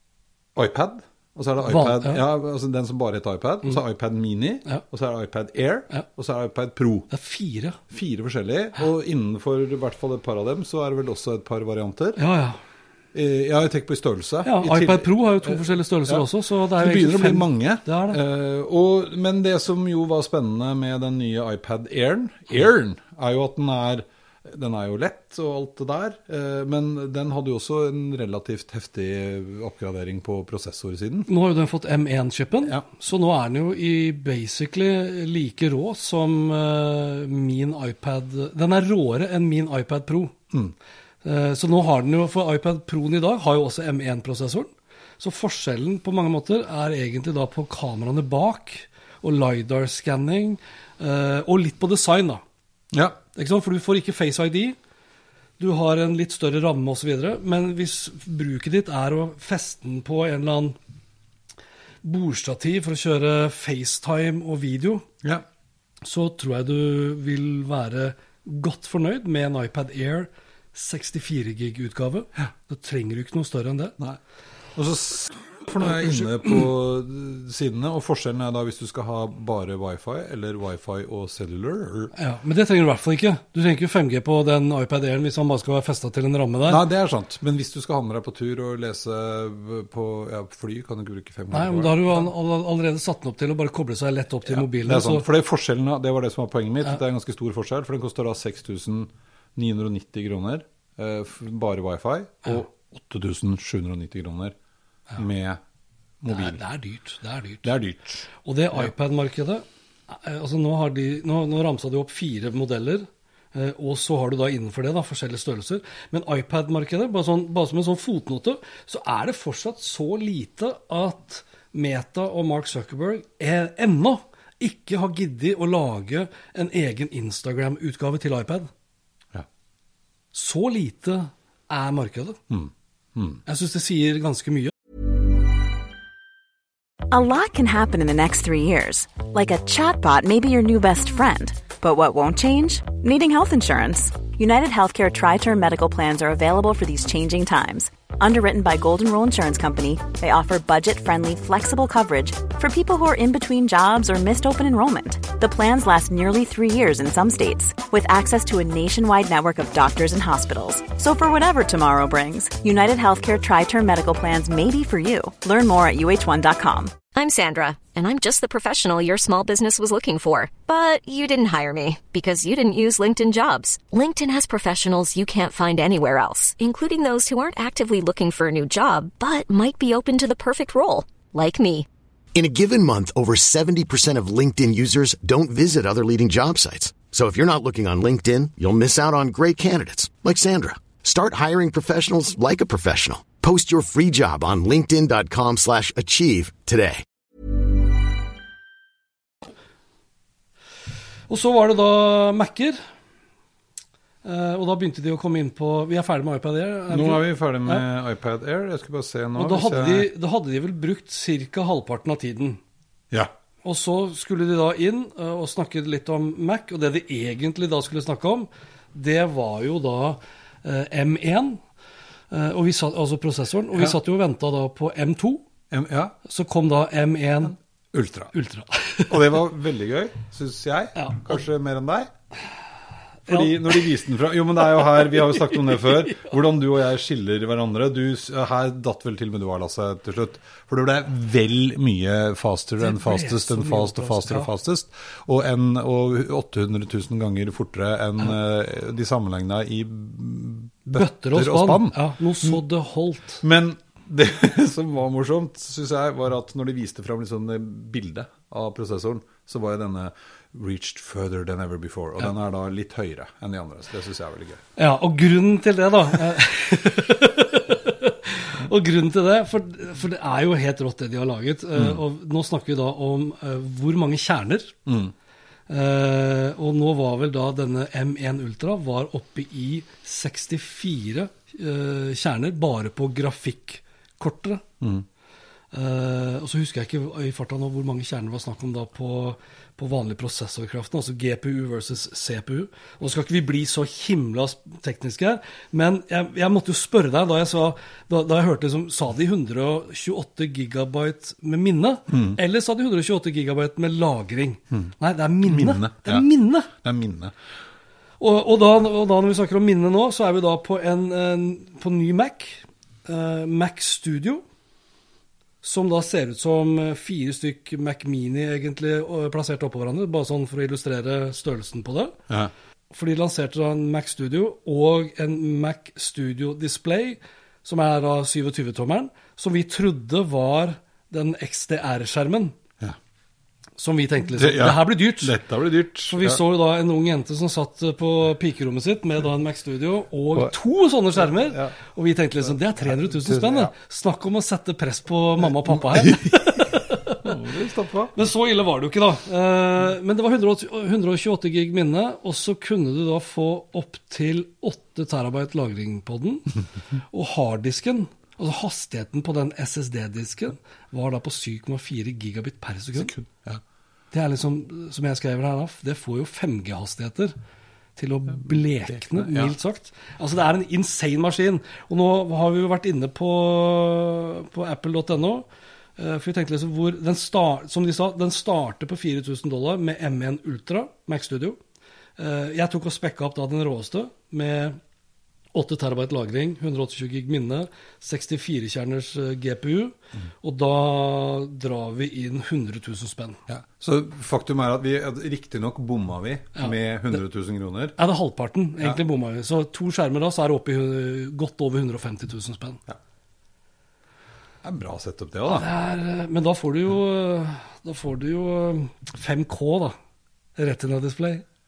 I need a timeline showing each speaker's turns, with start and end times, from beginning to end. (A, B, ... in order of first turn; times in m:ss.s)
0:00.6-0:07.1 A
0:01.6-0:02.2 B
0:07.1-0:07.8 B
0:07.9-0:12.2 A
0:12.2-0:12.6 B
0:13.1-0:31.3 A
0:14.4-0:18.2 B
0:31.3-0:40.4 B
0:41.2-0:52.4 B
0:52.9-0:53.2 A
0:53.4-0:54.8 B
0:55.6-1:00.8 B
1:02.0-1:05.1 B
1:06.0-1:14.0 B
1:14.8-1:22.1 A
1:22.2-1:26.8 B
1:26.7-1:32.3 A
1:31.5-1:35.3 B
1:34.5-1:44.6 A
1:45.2-1:45.6 A
1:46.2-1:46.6 A
1:46.3-1:47.7 B
1:47.6-1:48.9 A
1:48.4-2:08.7 B
2:10.3-2:12.4 B
2:12.5-2:13.4 A
2:13.5-2:14.7 B
2:17.1-2:47.0 C
2:47.1-3:01.9 D
3:02.4-3:17.0 E
3:21.3-3:22.8 B
3:24.2-3:27.8 B
3:26.9-3:30.1 A
3:29.4-3:32.6 B
3:33.6-3:41.6 B
3:42.3-3:45.4 B
3:45.7-3:46.2 A
3:46.2-3:47.5 B
3:47.4-3:48.3 A
3:48.3-3:49.2 B
3:49.1-3:52.1 A
3:51.0-3:51.4 B
3:53.3-4:12.6 A
3:53.3-3:53.5 B
4:02.8-4:04.5 B
4:10.9-4:13.4 B
4:13.4-4:24.6 A
4:24.8-4:34.8 B
4:31.8-4:32.0 A
4:34.9-4:35.1 A
4:35.7-4:44.6 B
4:45.7-5:06.7 B
5:02.1-5:02.4 A
5:05.4-5:07.3 A
5:08.2-5:14.4 B
5:15.6-5:22.2 B
5:22.9-5:32.6 B
5:33.8-5:35.4 B
5:34.4-5:36.4 A
5:36.1-5:47.3 B
5:41.2-5:41.8 A
5:42.8-5:43.7 A
5:45.7-5:46.4 A
5:47.2-5:48.1 A
5:48.2-5:56.5 B
5:57.1-6:03.1 B
6:03.0-6:03.6 A
6:04.1-6:07.4 B
6:08.0-6:15.5 B
6:08.4-6:09.5 A
6:16.0-6:21.6 B
6:22.2-6:24.8 B
6:25.5-6:33.4 B
6:33.5-6:38.0 A
6:36.6-6:37.2 B
6:38.0-6:42.8 B
6:44.6-6:45.7 A
6:45.5-6:50.0 B
6:50.6-6:51.4 B